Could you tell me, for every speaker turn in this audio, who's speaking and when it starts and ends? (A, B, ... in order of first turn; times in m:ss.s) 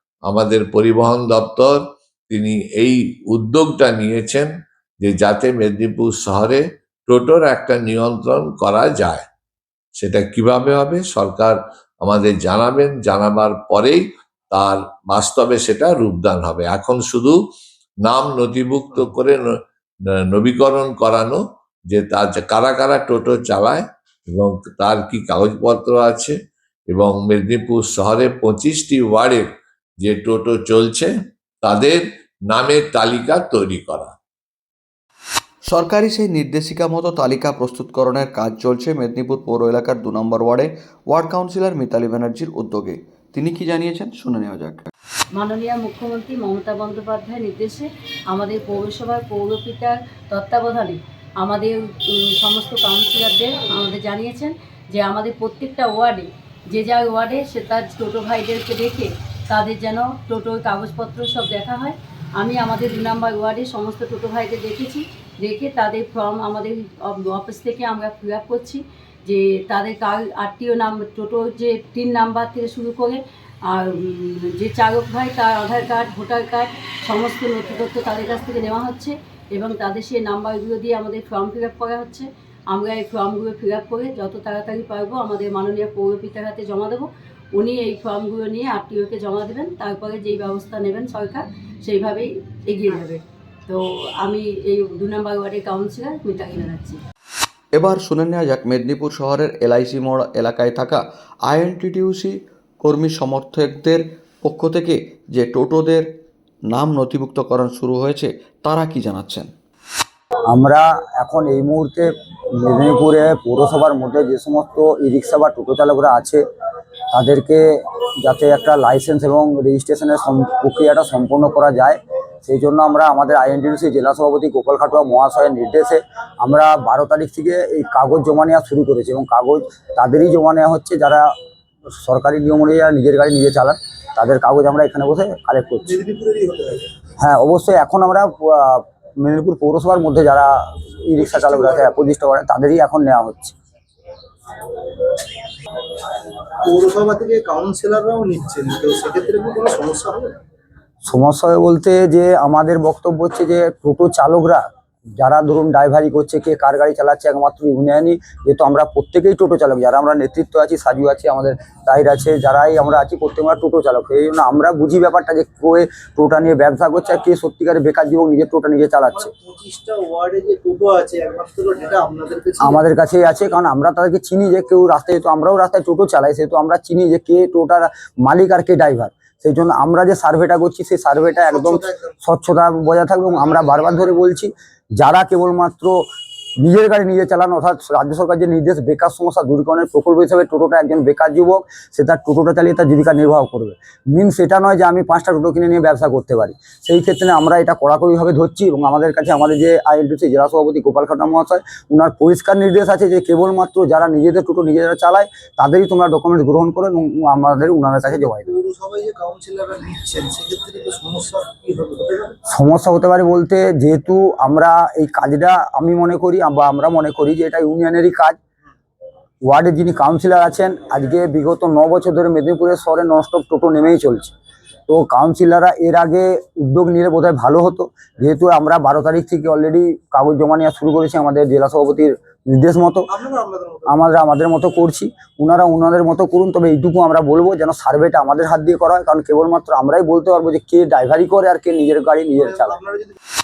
0:00.2-0:09.2 A
0:10.0-0:17.4 A
0:18.0-0:19.5 A
0:20.2-0:26.4 A
0:26.9-0:29.5 A
0:30.0-0:34.1 A
0:35.7-0:44.9 B
0:45.4-1:37.0 C
1:37.8-1:46.0 B
1:46.7-1:49.5 B
1:50.5-1:52.1 D
1:52.6-1:56.4 D
1:57.1-2:11.3 D
2:12.0-2:16.0 D
2:15.8-2:16.9 E
2:17.2-2:20.6 D
2:21.1-2:23.6 D
2:21.2-2:21.9 E
2:26.6-2:30.4 E
2:31.0-2:34.6 D
2:35.2-2:49.3 D
2:49.1-2:52.8 E
2:52.6-3:06.0 D
3:01.4-3:02.1 E
3:06.6-3:28.5 D
3:28.0-3:32.4 E
3:32.5-3:38.4 D
3:39.4-3:44.3 D
3:44.9-3:53.0 D
3:53.1-3:54.0 E
3:53.9-4:02.8 D
4:02.4-4:03.2 E